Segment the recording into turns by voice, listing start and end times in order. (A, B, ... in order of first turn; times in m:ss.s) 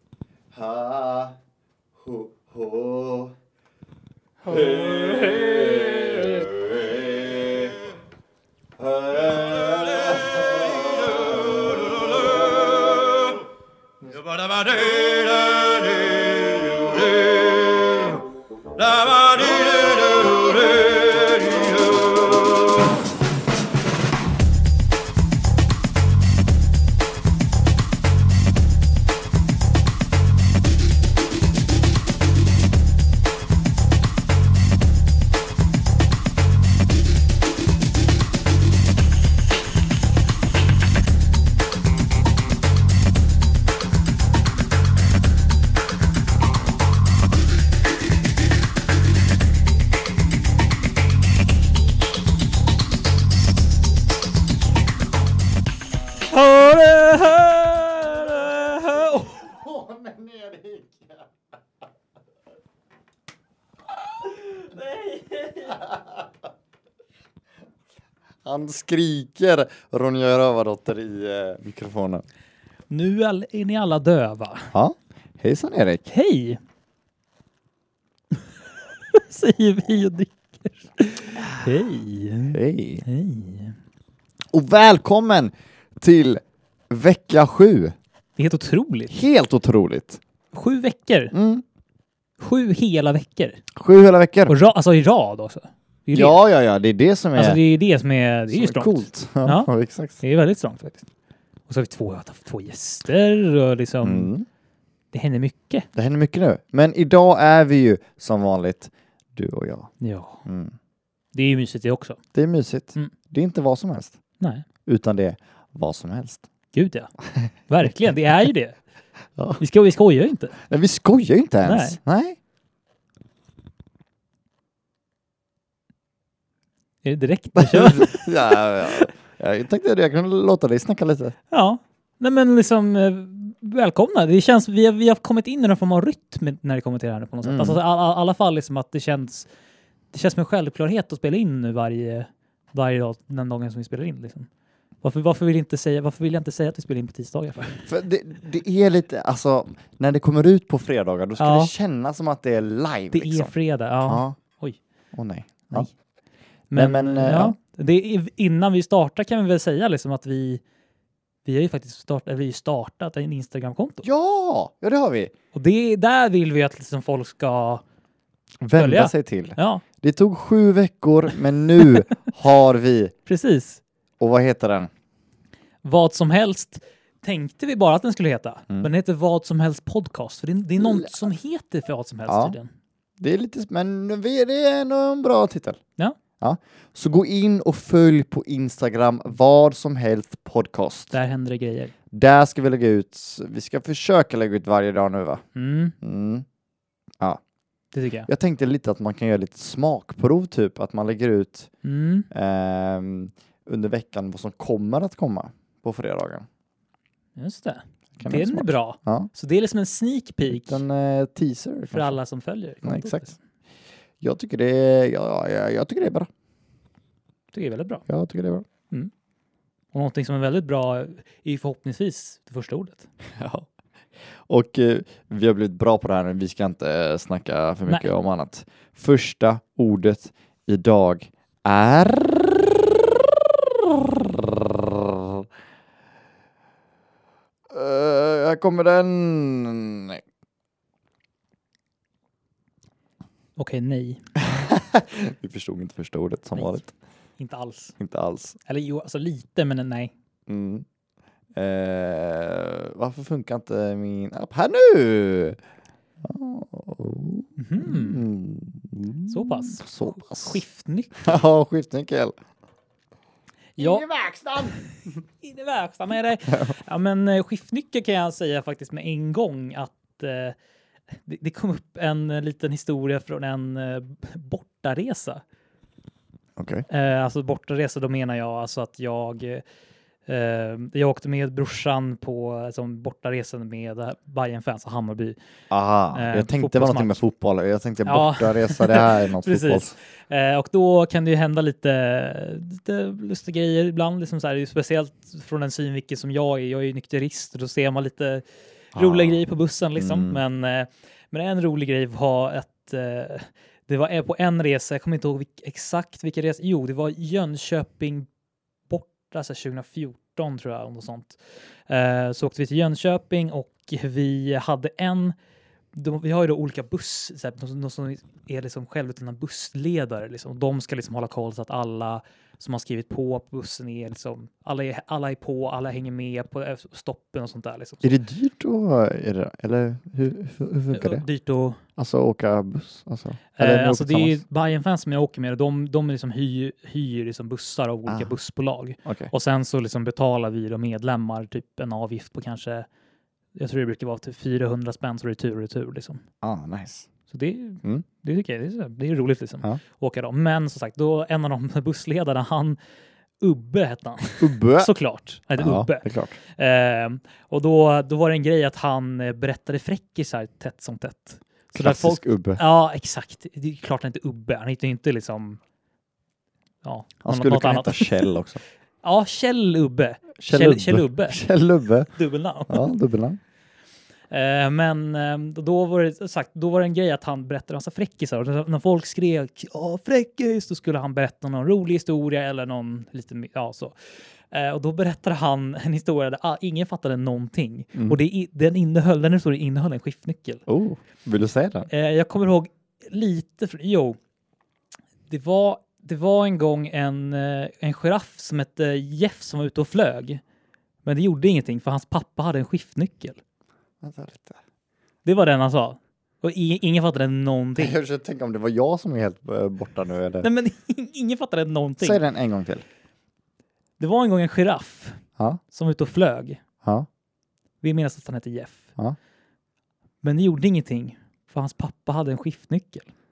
0:00.5-0:01.4 A
0:02.0-0:03.3 A
0:04.4-0:07.8 A
0:08.8-0:13.0 A
0:14.5-0:18.1 A
0:19.0-0:20.4 A
0:56.3-0:59.4 B
0:59.2-1:01.2 A
1:05.0-1:05.5 B
1:05.6-1:06.1 A
1:08.4-1:12.2 A
1:12.9-1:14.7 B
1:14.7-1:16.0 A
1:16.1-1:16.6 B
1:19.1-1:23.8 B
1:22.5-1:23.0 A
1:24.5-1:27.9 A
1:28.4-1:29.2 B
1:29.1-1:30.2 A
1:30.5-1:31.3 B
1:31.3-1:31.6 A
1:32.4-1:33.6 B
1:33.8-1:34.5 A
1:34.5-1:36.4 B
1:36.1-1:37.6 A
1:37.3-1:41.1 B
1:38.5-1:40.2 A
1:41.7-1:44.3 B
1:44.0-1:44.4 A
1:45.1-1:45.9 B
1:45.9-1:49.9 A
1:50.0-1:50.4 B
1:50.4-1:50.8 A
1:51.3-1:52.2 B
1:52.3-1:54.2 A
1:54.4-1:54.6 B
1:54.9-1:56.4 A
1:56.7-1:57.1 B
1:57.2-1:57.9 A
1:57.7-1:58.8 B
1:59.4-1:59.6 A
1:59.6-2:00.6 B
2:00.6-2:02.4 A
2:01.6-2:02.0 B
2:07.0-2:09.1 B
2:07.6-2:11.3 A
2:11.5-2:19.5 B
2:17.4-2:17.8 A
2:20.1-2:24.5 B
2:25.0-2:27.9 B
2:27.9-2:33.5 A
2:31.4-2:31.7 B
2:33.1-2:34.8 B
2:34.0-2:34.4 A
2:35.1-2:35.9 A
2:36.7-2:40.6 B
2:36.7-2:37.6 A
2:41.5-2:44.1 B
2:44.0-2:45.3 A
2:45.5-2:47.8 B
2:48.6-2:53.1 A
2:48.8-2:49.8 B
2:53.3-2:53.8 B
2:54.2-2:54.9 A
2:55.8-3:02.7 B
3:00.8-3:01.1 A
3:02.3-3:02.6 A
3:03.2-3:05.8 A
3:06.4-3:11.1 A
3:11.1-3:11.9 B
3:12.1-3:15.4 A
3:15.6-3:16.0 B
3:16.0-3:16.5 A
3:17.9-3:18.3 B
3:18.3-3:21.7 A
3:21.8-3:22.3 B
3:22.3-3:26.5 A
3:27.4-3:30.8 B
3:28.2-3:29.3 A
3:30.4-3:32.2 A
3:31.9-3:33.4 B
3:32.8-3:33.3 A
3:34.2-3:36.3 A
3:37.5-3:38.1 B
3:38.1-3:38.6 A
3:39.9-3:43.1 B
3:43.3-3:43.7 A
3:44.4-3:55.5 A
3:57.7-4:00.2 A
4:03.6-4:04.3 B
4:04.4-4:06.9 A
4:06.6-4:06.8 B
4:07.4-4:08.0 B
4:08.0-4:08.6 A
4:08.7-4:10.1 B
4:10.5-4:10.8 A
4:11.6-4:15.6 A
4:16.2-4:20.6 A
4:17.6-4:18.2 B
4:19.3-4:21.3 B
4:21.2-4:22.4 A
4:23.8-4:24.1 B
4:23.8-4:24.8 A
4:25.4-4:30.6 B
4:31.2-4:35.4 B
4:36.6-4:36.8 A
4:36.9-4:39.6 B
4:40.3-4:45.4 B
4:45.7-4:49.9 A
4:46.1-4:47.2 B
4:48.1-5:08.3 B
4:58.9-4:59.4 A
5:00.0-5:00.4 A
5:08.9-5:15.4 B
5:15.9-5:28.2 B
5:28.0-5:31.2 A
5:30.9-5:31.8 B
5:32.0-5:34.4 A
5:33.6-5:42.9 B
5:39.0-5:39.3 A
5:43.6-5:46.2 B
5:46.4-5:47.1 A
5:47.3-5:52.8 B
5:53.4-6:05.6 B
5:54.4-5:54.9 A
5:55.6-5:56.4 A
6:01.7-6:02.6 A
6:06.8-6:08.3 B
6:07.2-6:08.6 A
6:09.0-6:11.4 B
6:10.4-6:12.1 A
6:12.1-6:12.9 B
6:12.7-6:13.4 A
6:14.3-6:23.9 B
6:24.5-6:30.6 B
6:30.7-6:31.9 A
6:31.9-6:34.2 B
6:35.3-6:40.4 B
6:41.0-6:43.4 B
6:44.0-6:44.6 A
6:45.2-6:48.0 B
6:47.8-6:50.5 A
6:50.4-6:52.2 B
6:52.0-6:52.8 A
6:54.0-6:56.6 B
6:57.8-6:58.9 B
7:00.2-7:03.1 B